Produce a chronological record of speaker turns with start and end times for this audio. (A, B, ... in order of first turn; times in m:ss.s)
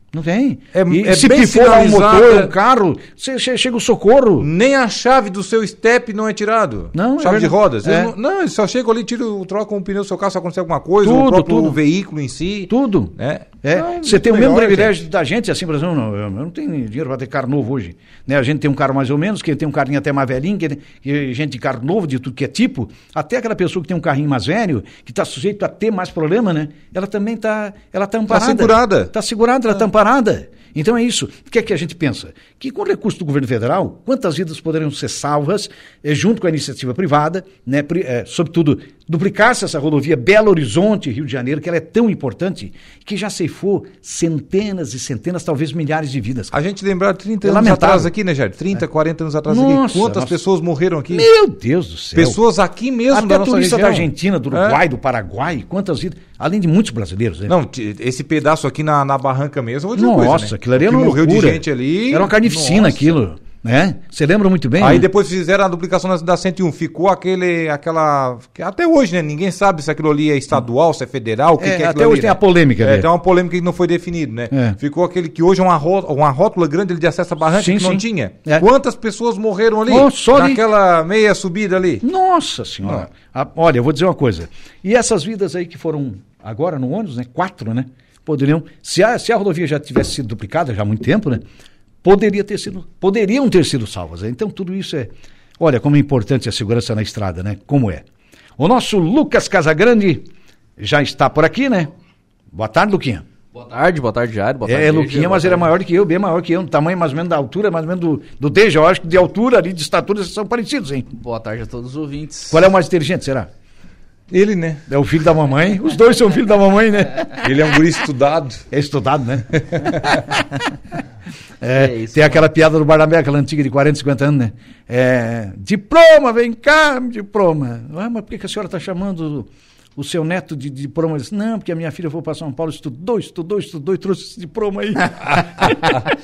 0:00.1-0:04.5 A
0:00.7-0:02.5 B
0:04.4-0:15.0 B
0:06.9-0:08.1 A
0:11.0-0:11.8 A
0:12.7-0:46.5 A
0:28.3-0:29.1 B
0:46.5-0:51.3 B
0:47.4-0:48.1 A
0:49.5-0:50.4 A
0:51.1-0:52.4 A
0:52.2-0:54.8 B
0:53.1-0:57.5 A
0:57.5-1:03.2 B
1:00.0-1:05.1 A
1:04.8-1:22.0 B
1:11.6-1:13.1 A
1:14.5-1:14.8 A
1:17.5-1:18.7 A
1:19.9-1:20.6 A
1:22.0-1:31.4 A
1:32.0-1:38.0 A
1:38.6-1:41.9 A
1:42.5-1:43.2 A
1:43.5-1:45.7 C
1:44.6-1:51.1 A
1:51.2-1:52.6 C
1:52.5-1:53.5 A
1:54.3-1:54.8 B
1:54.9-1:57.4 A
1:57.4-1:58.6 B
1:58.7-2:00.5 A
1:59.6-2:00.2 B
2:01.6-2:16.0 A
2:01.7-2:02.5 C
2:15.3-2:16.0 C